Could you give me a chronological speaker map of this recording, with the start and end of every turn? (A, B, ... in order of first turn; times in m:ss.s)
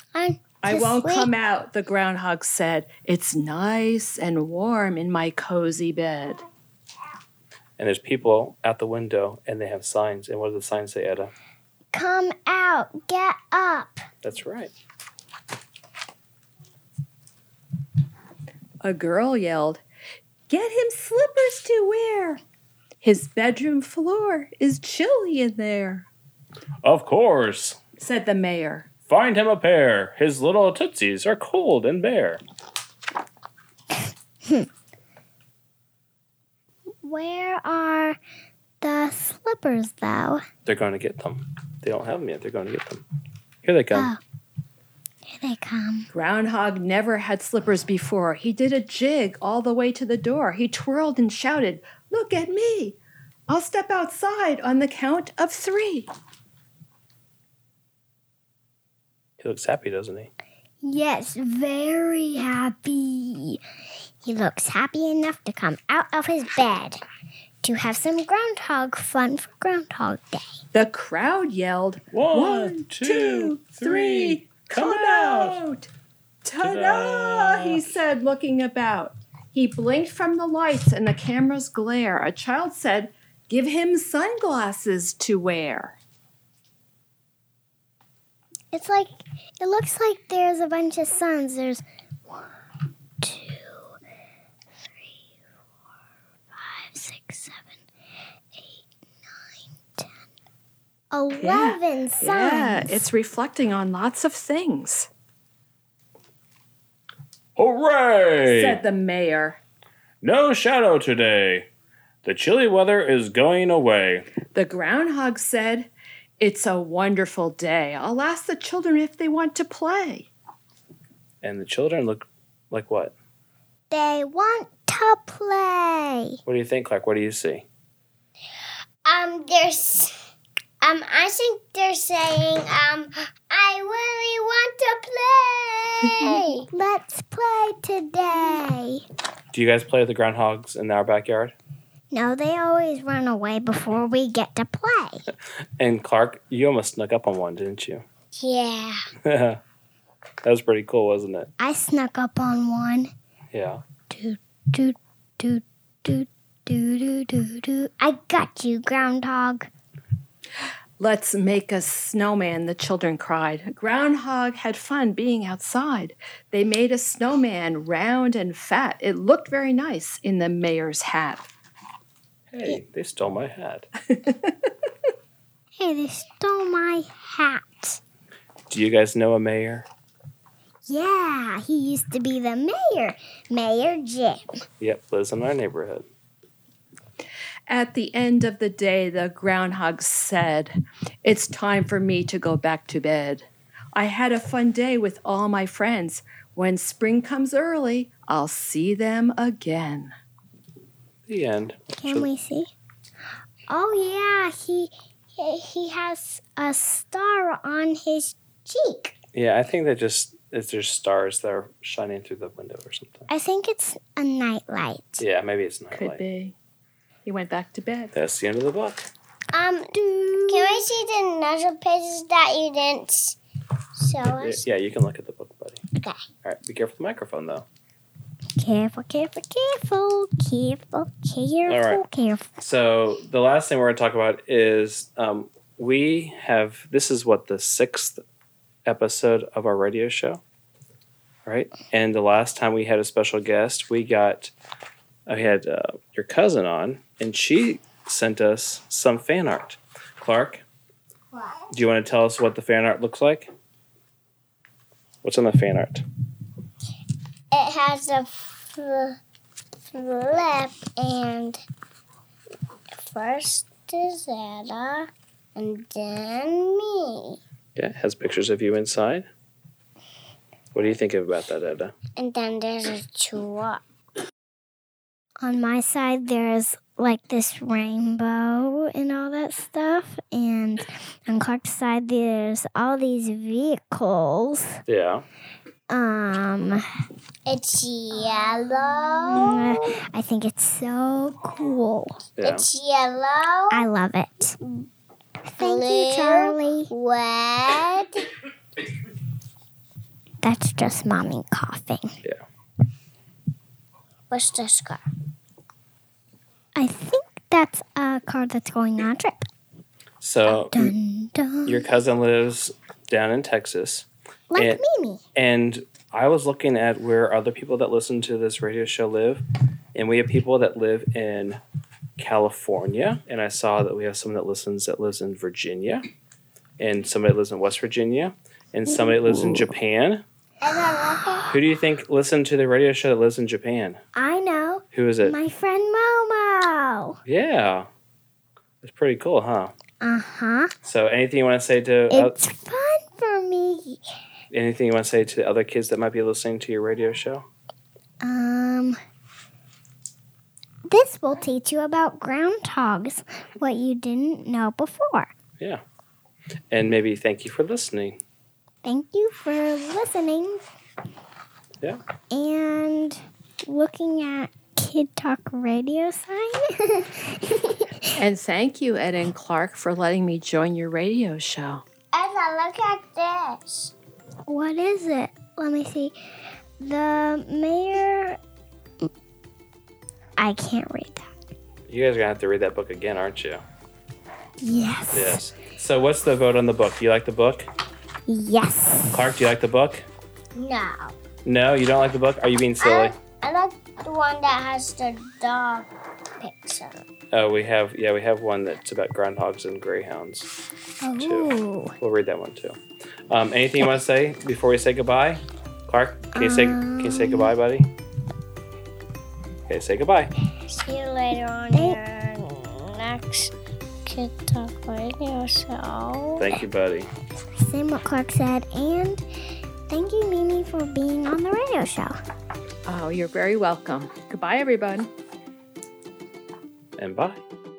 0:00.2-0:01.3 A
0:00.6-0:06.4 B
0:07.8-0:11.3 C
0:11.9-0:14.0 D
0:14.2-0:14.7 C
0:18.8-0:19.8 B
0:20.5-0:22.4 B
0:23.0-0:26.1 B
0:26.8-0:27.8 C
0:28.0-0:28.9 B
0:29.1-0:32.4 C
0:37.0-0:38.2 D
0:38.8-0:40.4 D
0:40.6-0:43.0 C
0:43.6-0:44.1 C
0:43.9-0:44.2 D
0:45.3-0:46.1 D
0:46.1-0:53.0 B
0:53.5-0:56.1 B
0:59.4-1:00.3 C
1:00.8-1:03.6 D
1:04.2-1:07.0 D
1:07.6-1:10.5 D
1:10.7-1:15.9 B
1:12.1-1:15.6 C
1:16.4-1:26.0 B
1:16.6-1:17.8 C
1:28.7-1:32.4 D
1:33.2-1:34.0 D
1:36.5-1:37.7 D
1:41.1-1:43.1 D
1:41.4-1:45.1 B
1:47.6-1:48.8 C
1:48.4-1:49.6 B
1:50.2-1:51.7 C
1:52.2-1:54.3 C
1:54.5-2:00.3 B
2:01.4-2:03.2 C
2:03.9-2:06.4 D
2:06.5-2:07.7 C
2:09.0-2:10.2 A
2:10.8-2:16.6 A
2:16.3-2:19.0 D
2:19.5-2:21.6 C
2:22.1-2:25.2 D
2:25.8-2:28.0 C
2:28.4-2:29.0 A
2:29.2-2:29.6 C
2:30.4-2:31.5 C
2:31.6-2:33.1 D
2:33.5-2:33.8 C
2:34.1-2:39.7 D
2:41.0-2:51.5 B
2:52.5-2:53.9 C
2:55.8-2:58.0 D
2:58.7-2:59.9 C
3:00.8-3:04.4 D
3:04.8-3:06.1 C
3:07.7-3:10.7 B
3:11.2-3:20.1 B
3:21.3-3:22.3 C
3:21.9-3:22.7 D
3:23.7-3:29.2 D
3:29.3-3:33.3 C
3:33.3-3:35.2 D
3:35.2-3:36.2 C
3:35.9-3:36.6 B
3:37.3-3:38.1 B
3:38.1-3:39.1 C
3:39.5-3:39.9 A
3:39.9-3:40.8 D
3:40.5-3:43.4 A
3:44.0-3:44.6 A
3:44.2-3:45.8 C
3:46.4-3:47.7 C
3:48.6-3:52.5 D
3:51.7-3:52.0 C
3:52.6-3:58.2 C
3:58.9-4:00.4 C
4:01.5-4:04.5 C
4:05.3-4:10.6 C
4:11.7-4:13.5 C
4:15.2-4:16.0 C
4:17.5-4:19.2 A
4:19.9-4:21.6 A
4:23.0-4:27.4 A
4:27.8-4:29.3 C
4:30.7-4:31.9 C
4:32.2-4:33.8 A
4:35.4-4:44.8 D
4:44.9-4:45.3 C
4:45.9-4:46.8 D
4:47.5-4:49.9 A
4:49.3-4:52.2 D
4:52.4-4:52.7 C
4:52.4-4:53.8 A
4:53.7-4:54.6 D
4:55.6-4:56.9 D
4:55.6-4:58.3 A
5:00.4-5:02.2 D
5:04.3-5:05.0 A
5:06.8-5:09.5 D
5:10.2-5:10.9 C
5:10.5-5:11.9 D
5:11.7-5:14.8 C
5:14.5-5:15.2 D
5:15.4-5:19.4 C
5:20.0-5:21.6 C
5:22.2-5:26.0 C
5:26.8-5:30.2 C
5:30.6-5:31.5 A
5:31.5-5:34.0 C
5:34.2-5:37.2 D
5:34.9-5:35.4 C
5:37.3-5:37.9 C
5:38.8-5:39.7 C
5:40.0-5:40.7 D
5:40.8-5:42.4 C
5:42.1-5:44.0 D
5:44.5-5:47.5 C
5:48.2-5:49.0 D
5:50.9-5:55.3 D
5:56.7-5:58.2 C
5:58.8-6:00.6 D
6:02.3-6:08.1 D
6:08.2-6:11.8 B
6:12.1-6:13.9 A
6:14.5-6:16.1 D
6:16.8-6:18.4 D
6:20.4-6:21.3 D
6:21.9-6:23.6 C
6:24.6-6:25.4 D
6:25.1-6:27.7 C
6:28.3-6:29.3 D
6:29.1-6:30.1 C
6:30.6-6:31.1 A
6:31.4-6:33.2 C
6:32.8-6:37.0 A
6:37.3-6:40.5 C
6:41.0-6:41.9 D
6:41.2-6:42.8 C
6:43.3-6:47.9 C
6:46.3-6:47.5 D
6:49.7-6:50.4 C
6:50.7-6:53.5 A
6:51.7-6:52.0 D
6:54.1-6:56.6 A
6:56.4-6:57.1 C
6:57.4-6:59.2 D
6:59.9-7:02.2 D
7:02.9-7:05.1 B
7:07.0-7:07.4 C